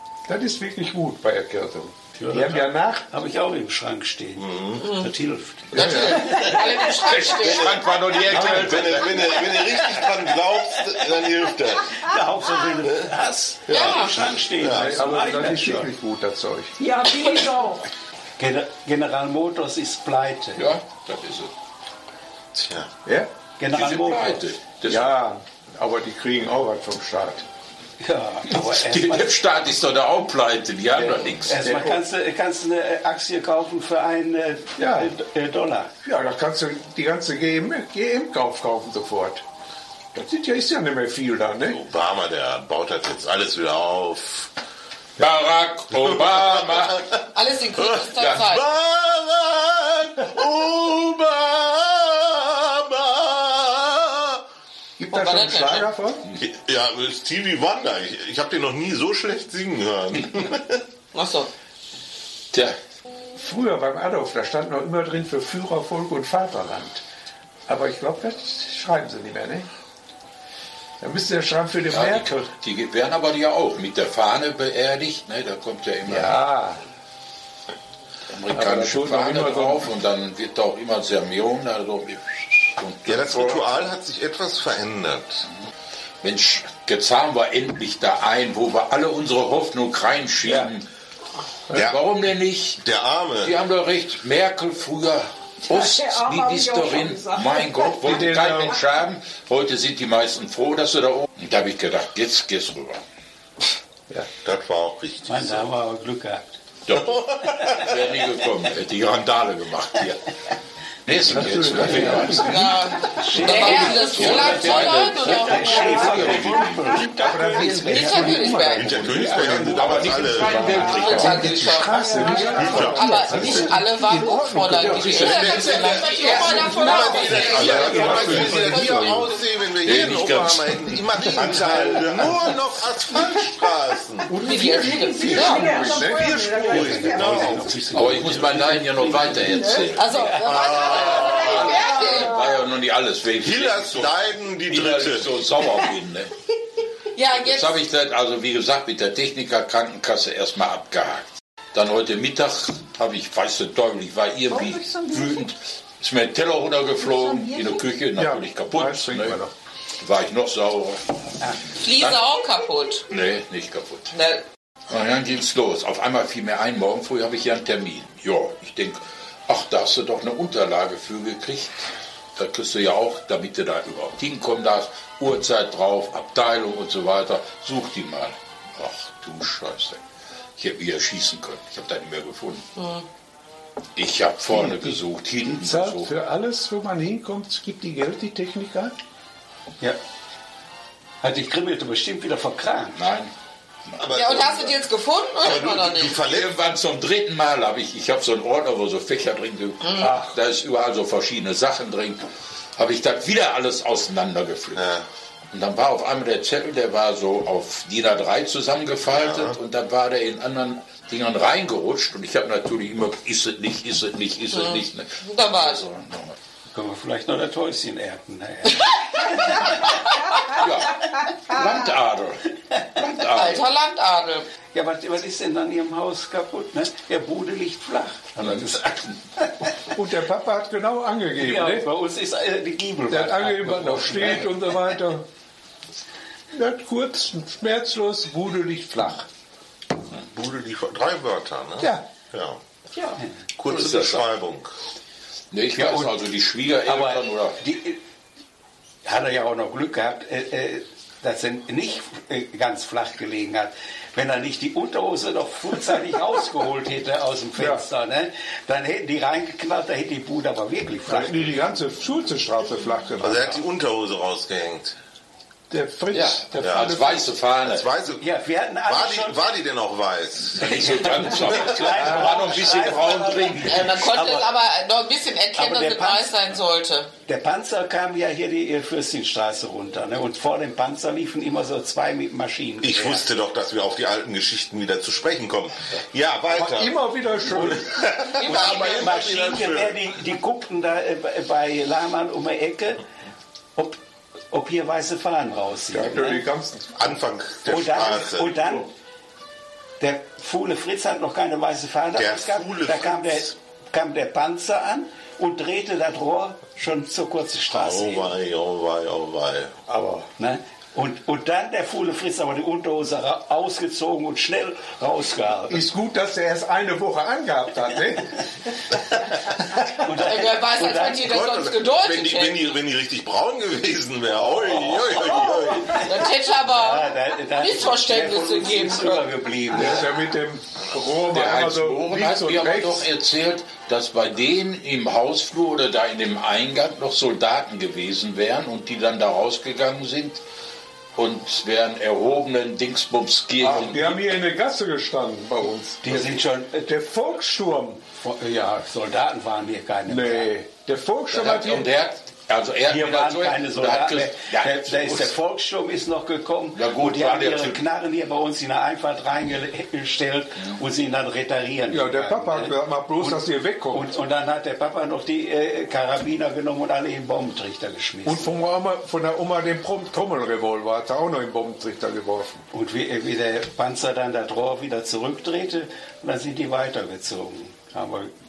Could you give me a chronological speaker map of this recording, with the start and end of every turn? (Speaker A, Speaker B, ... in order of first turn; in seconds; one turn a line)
Speaker A: 0.3-3.0
Speaker B: 2.2-6.6
Speaker C: 4.4-4.9
Speaker D: 4.8-5.1
Speaker A: 5.7-6.8
Speaker D: 5.7-7.7
Speaker E: 7.0-9.2
Speaker C: 7.4-7.8
Speaker A: 8.2-8.8
Speaker C: 8.4-12.0
Speaker B: 9.4-10.2
Speaker B: 12.0-15.9
Speaker A: 13.7-14.0
Speaker D: 13.7-14.2
Speaker C: 14.6-15.0
Speaker A: 14.6-16.7
Speaker F: 16.8-17.8
Speaker B: 18.4-20.7
Speaker E: 20.6-21.5
Speaker C: 22.6-22.9
Speaker B: 23.6-24.5
Speaker E: 23.7-25.1
Speaker A: 24.9-27.4
Speaker B: 28.0-29.4
Speaker E: 28.5-31.6
Speaker A: 31.0-32.0
Speaker B: 31.4-35.9
Speaker A: 34.8-35.1
Speaker A: 36.0-39.4
Speaker A: 40.1-41.8
Speaker C: 41.6-44.5
Speaker E: 45.2-47.3
Speaker C: 46.0-47.2
Speaker D: 47.3-48.7
Speaker C: 47.8-54.4
Speaker E: 48.2-48.4
Speaker A: 55.0-56.2
Speaker D: 55.1-55.9
Speaker C: 56.4-60.9
Speaker D: 61.1-61.5
Speaker A: 63.4-67.0
Speaker A: 67.7-69.7
Speaker A: 71.0-72.5
Speaker E: 71.9-76.4
Speaker A: 76.1-76.8
Speaker E: 78.3-83.9
Speaker A: 78.5-79.9
Speaker C: 83.1-85.5
Speaker E: 86.2-90.9
Speaker A: 90.5-90.7
Speaker E: 91.7-92.8
Speaker C: 92.8-93.6
Speaker E: 93.4-103.0
Speaker F: 95.7-98.0
Speaker A: 98.0-98.8
Speaker C: 104.4-105.7
Speaker B: 105.3-106.6
Speaker E: 106.9-107.2
Speaker C: 107.1-108.0
Speaker E: 107.7-110.2
Speaker E: 111.0-112.8
Speaker A: 111.2-129.2
Speaker B: 111.7-112.3
Speaker D: 112.3-115.7
Speaker B: 113.2-118.7
Speaker E: 113.6-117.0
Speaker D: 117.6-118.9
Speaker C: 118.8-121.4
Speaker E: 118.9-121.5
Speaker D: 120.7-129.4
Speaker C: 122.4-123.7
Speaker F: 122.4-122.9
Speaker C: 124.9-134.3
Speaker E: 124.9-129.2
Speaker F: 126.3-126.7
Speaker E: 129.8-132.5
Speaker A: 131.3-132.3
Speaker A: 134.3-137.2
Speaker D: 134.4-135.8
Speaker F: 135.0-137.6
Speaker C: 136.0-137.8
Speaker B: 136.6-141.8
Speaker E: 137.9-146.3
Speaker F: 139.5-139.8
Speaker D: 139.9-142.4
Speaker C: 140.4-141.8
Speaker F: 141.7-142.0
Speaker C: 143.4-145.4
Speaker D: 147.2-147.8
Speaker E: 147.4-159.4
Speaker F: 154.5-155.4
Speaker F: 157.0-157.8
Speaker A: 158.1-159.5
Speaker E: 160.0-161.3
Speaker B: 161.4-161.8
Speaker D: 161.8-163.1
Speaker E: 163.1-164.1
Speaker D: 164.1-164.4
Speaker E: 164.9-180.0
Speaker E: 180.6-182.7
Speaker D: 182.8-183.1
Speaker E: 184.0-186.1
Speaker A: 184.5-188.9
Speaker B: 191.2-193.1
Speaker E: 193.0-193.3
Speaker E: 193.9-194.3
Speaker C: 194.0-194.9
Speaker D: 194.1-196.2
Speaker C: 195.4-196.6
Speaker E: 196.2-204.8
Speaker D: 199.8-200.1
Speaker C: 204.7-205.1
Speaker E: 205.5-216.4
Speaker C: 209.1-209.6
Speaker D: 214.5-215.8
Speaker B: 216.7-219.9
Speaker E: 220.6-223.7
Speaker D: 223.3-224.5
Speaker B: 224.7-229.7
Speaker A: 229.9-231.9
Speaker B: 231.4-234.8
Speaker A: 233.1-235.2
Speaker A: 236.5-239.3
Speaker C: 240.3-242.6
Speaker A: 241.8-242.1
Speaker C: 243.6-244.7
Speaker E: 243.6-244.3
Speaker E: 245.5-247.6
Speaker B: 245.8-246.1
Speaker B: 246.9-248.0
Speaker B: 249.1-261.7
Speaker A: 257.6-257.9
Speaker A: 261.1-263.6
Speaker C: 263.2-265.0
Speaker A: 265.7-267.4
Speaker E: 266.1-267.9
Speaker C: 266.6-266.9
Speaker C: 267.6-268.2
Speaker B: 268.1-269.5
Speaker C: 268.8-271.8
Speaker E: 270.6-274.1
Speaker B: 270.6-274.5
Speaker A: 272.0-272.4
Speaker D: 273.6-277.1
Speaker B: 275.6-276.3
Speaker B: 277.3-283.3
Speaker C: 282.8-290.0
Speaker A: 286.5-287.8
Speaker B: 287.5-293.0
Speaker D: 288.4-289.2
Speaker B: 294.5-296.4
Speaker A: 295.9-298.9
Speaker C: 297.0-298.6
Speaker B: 297.7-298.9
Speaker B: 300.0-308.3
Speaker C: 302.1-303.5
Speaker C: 307.7-309.8
Speaker A: 309.9-310.3
Speaker B: 310.4-315.9
Speaker A: 315.7-318.3
Speaker B: 318.9-321.4
Speaker D: 320.2-322.7
Speaker C: 321.2-326.0
Speaker B: 324.4-330.1
Speaker D: 326.0-329.2
Speaker A: 329.7-333.1
Speaker E: 331.3-340.4
Speaker E: 341.2-344.3
Speaker A: 343.6-346.2
Speaker B: 346.0-346.9
Speaker A: 346.8-348.0
Speaker B: 348.1-350.5
Speaker A: 350.1-351.9
Speaker E: 351.3-355.3
Speaker B: 352.9-368.5
Speaker E: 356.7-357.8
Speaker A: 361.9-364.1
Speaker A: 368.2-372.6
Speaker B: 372.7-378.3